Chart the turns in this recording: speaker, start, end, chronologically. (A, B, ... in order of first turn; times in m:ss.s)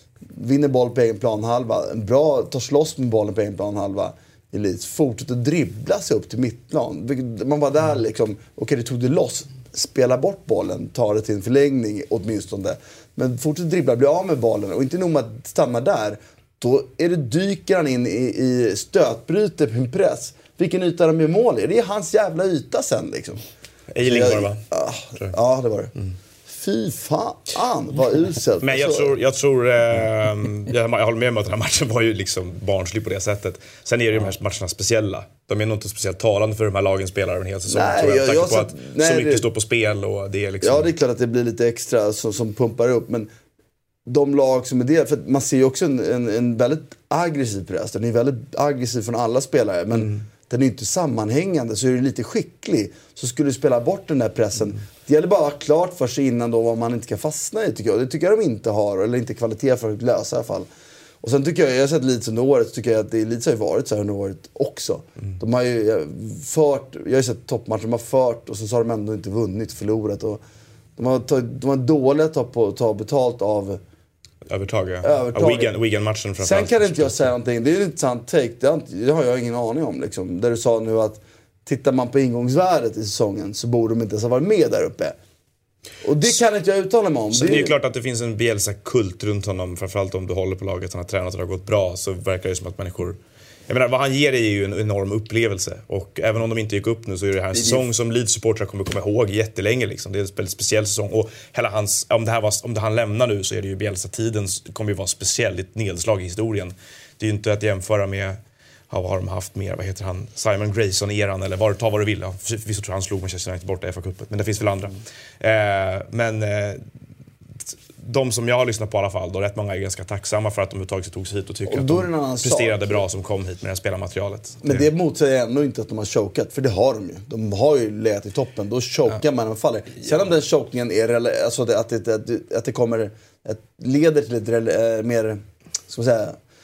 0:00.3-0:23.4 A
0:23.9-0:24.6 B
0:24.0-0:25.9 A
0:26.5-0:29.1 A
0:28.6-0:40.9 B
0:37.7-0:39.4 A
0:40.6-0:43.3 A
0:44.1-1:00.7 A
1:01.2-1:10.4 A
1:11.0-1:13.8 A
1:14.5-1:17.3 B
1:15.0-1:15.8 A
1:16.4-1:25.2 A
1:26.0-1:27.8 A
1:27.3-1:48.4 B
1:37.5-1:37.8 A
1:48.9-1:56.8 B
1:58.0-2:04.9 B
2:01.7-2:03.0 A
2:04.6-2:16.4 A